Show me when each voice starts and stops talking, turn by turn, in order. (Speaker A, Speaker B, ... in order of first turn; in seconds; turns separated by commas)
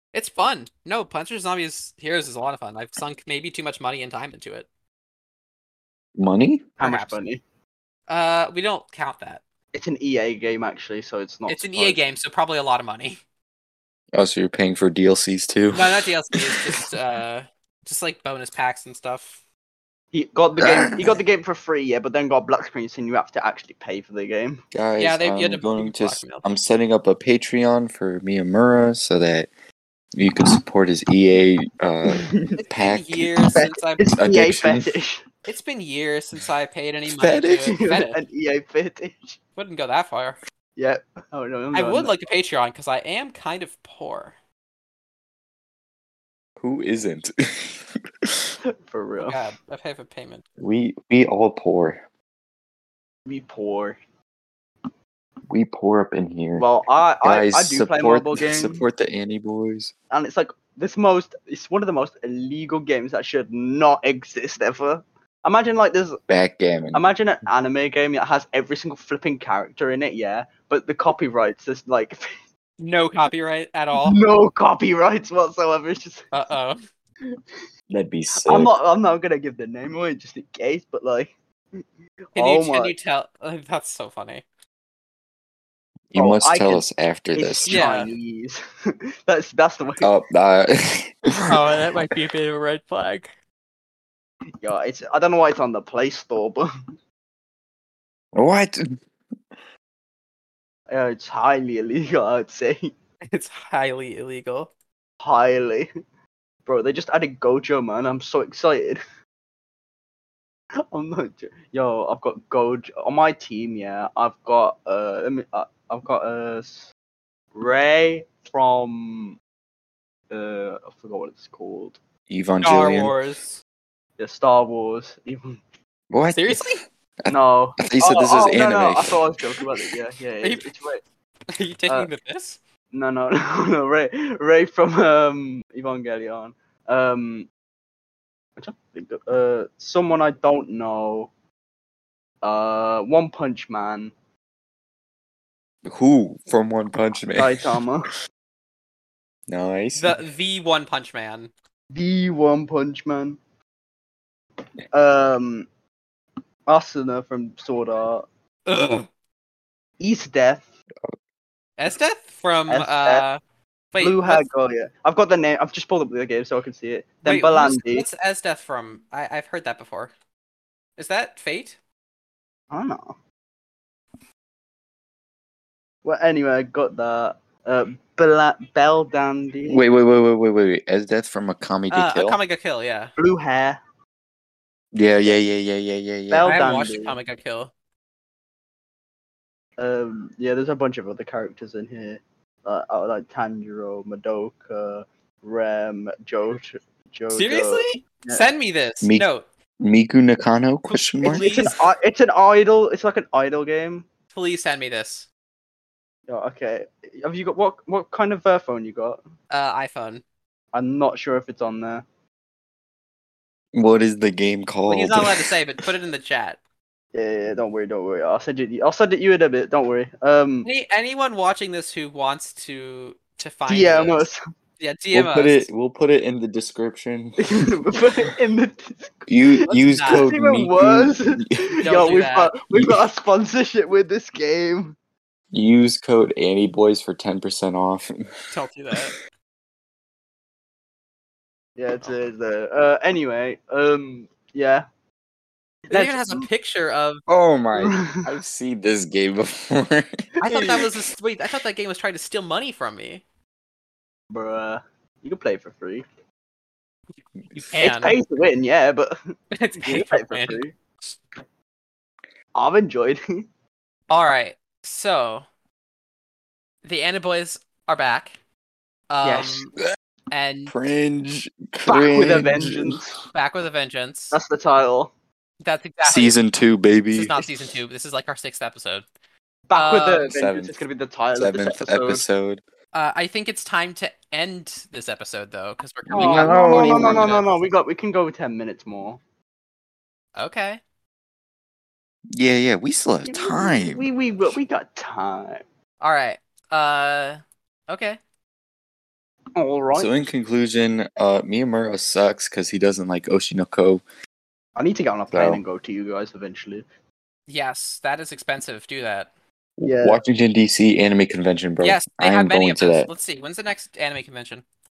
Speaker A: 0.1-4.7, Speaker B: 6.2-6.7, Speaker C: 6.8-7.4, Speaker A: 6.8-7.2, Speaker A: 8.1-9.4, Speaker C: 9.7-12.0, Speaker A: 11.5-13.2, Speaker B: 14.1-16.9, Speaker A: 15.7-19.4, Speaker C: 20.1-24.6, Speaker B: 20.6-21.2, Speaker B: 24.7-29.5, Speaker A: 25.0-26.5, Speaker B: 30.1-33.3, Speaker C: 32.1-32.6, Speaker A: 32.6-34.1, Speaker C: 33.5-35.2, Speaker B: 34.1-34.9, Speaker A: 35.5-38.2, Speaker B: 37.1-37.8, Speaker C: 37.6-39.4, Speaker A: 39.6-40.4, Speaker C: 40.8-42.1, Speaker A: 41.7-44.3, Speaker B: 46.6-48.5, Speaker C: 48.6-49.4, Speaker A: 49.2-50.4, Speaker B: 50.6-52.0, Speaker C: 53.3-54.0, Speaker B: 55.5-56.7, Speaker C: 56.6-58.8, Speaker B: 57.2-59.9, Speaker C: 60.1-66.2, Speaker B: 66.3-67.1, Speaker C: 66.9-72.4, Speaker A: 72.8-74.2, Speaker C: 74.0-76.3, Speaker A: 76.3-76.8, Speaker C: 77.3-77.6, Speaker B: 77.9-78.7, Speaker C: 78.4-82.9, Speaker A: 82.3-84.4, Speaker B: 86.1-87.8, Speaker C: 86.2-86.8, Speaker C: 87.3-90.1, Speaker A: 87.7-88.1, Speaker B: 90.0-91.6, Speaker A: 91.3-93.3, Speaker C: 94.6-96.7, Speaker B: 98.3-99.0, Speaker C: 100.9-102.9, Speaker A: 103.3-104.7, Speaker C: 105.2-105.9, Speaker C: 106.7-109.0, Speaker C: 110.9-116.9, Speaker C: 117.5-119.4, Speaker C: 120.3-122.0, Speaker B: 122.3-123.1, Speaker A: 122.6-123.6, Speaker C: 124.2-125.6, Speaker B: 126.1-129.2, Speaker A: 126.4-126.8, Speaker C: 127.3-131.0, Speaker A: 130.4-130.7, Speaker A: 131.5-132.6, Speaker C: 132.9-137.5, Speaker C: 138.6-141.3, Speaker C: 142.4-144.1, Speaker B: 145.8-147.8, Speaker C: 147.4-148.2, Speaker B: 149.5-150.2, Speaker A: 150.0-151.5, Speaker C: 151.9-153.4, Speaker C: 154.9-155.7, Speaker C: 156.7-158.2, Speaker A: 158.7-159.1, Speaker C: 160.0-160.7, Speaker A: 161.8-163.4, Speaker C: 162.7-163.3, Speaker A: 163.9-164.5, Speaker C: 164.0-168.1, Speaker A: 167.2-170.1, Speaker A: 171.0-171.8, Speaker C: 172.7-173.2, Speaker C: 176.1-179.8, Speaker B: 179.7-182.4, Speaker A: 181.9-183.1, Speaker C: 183.2-183.8, Speaker B: 184.9-186.5, Speaker C: 186.3-187.2, Speaker A: 186.4-187.7, Speaker C: 189.8-198.5, Speaker A: 197.3-199.4, Speaker B: 199.0-199.3, Speaker B: 199.8-201.8, Speaker A: 200.9-201.7, Speaker C: 201.4-204.1, Speaker A: 204.3-205.3, Speaker C: 206.3-209.2, Speaker A: 209.5-210.2, Speaker C: 210.7-212.0, Speaker B: 213.7-215.5, Speaker A: 214.9-216.6, Speaker C: 217.1-220.7, Speaker A: 220.7-224.3, Speaker C: 223.7-224.4, Speaker A: 224.8-225.7, Speaker B: 225.1-227.6, Speaker C: 227.4-235.0, Speaker B: 229.3-231.6, Speaker A: 229.7-230.3, Speaker A: 231.8-232.5, Speaker B: 232.7-233.0, Speaker B: 235.5-238.2, Speaker A: 238.5-239.2, Speaker C: 241.8-244.9, Speaker C: 245.9-246.5, Speaker A: 245.9-247.2, Speaker B: 247.3-250.3, Speaker C: 247.8-248.2, Speaker C: 250.4-250.9, Speaker A: 250.4-253.2, Speaker C: 254.3-256.1, Speaker A: 257.5-258.2, Speaker C: 257.8-260.7, Speaker A: 259.5-261.2, Speaker C: 262.6-263.4, Speaker A: 264.1-265.4, Speaker A: 266.8-268.4, Speaker A: 269.1-269.7, Speaker C: 269.2-269.7, Speaker A: 270.3-270.7, Speaker B: 270.7-273.0, Speaker C: 271.9-273.2, Speaker A: 273.3-274.4, Speaker C: 274.3-275.1, Speaker A: 275.6-276.4, Speaker B: 276.0-277.5, Speaker A: 277.1-279.0, Speaker C: 279.7-282.2, Speaker A: 279.7-280.3, Speaker B: 280.2-280.8, Speaker B: 281.4-282.6, Speaker A: 282.9-287.5, Speaker B: 286.1-287.4, Speaker C: 286.1-289.2, Speaker A: 290.4-290.8, Speaker B: 292.3-294.6, Speaker C: 293.3-295.6, Speaker A: 296.0-298.2, Speaker C: 299.6-300.2, Speaker B: 299.9-304.0, Speaker C: 304.8-306.9, Speaker B: 305.3-305.6, Speaker A: 307.5-309.3, Speaker B: 309.8-313.1, Speaker C: 309.8-310.2, Speaker A: 311.8-314.6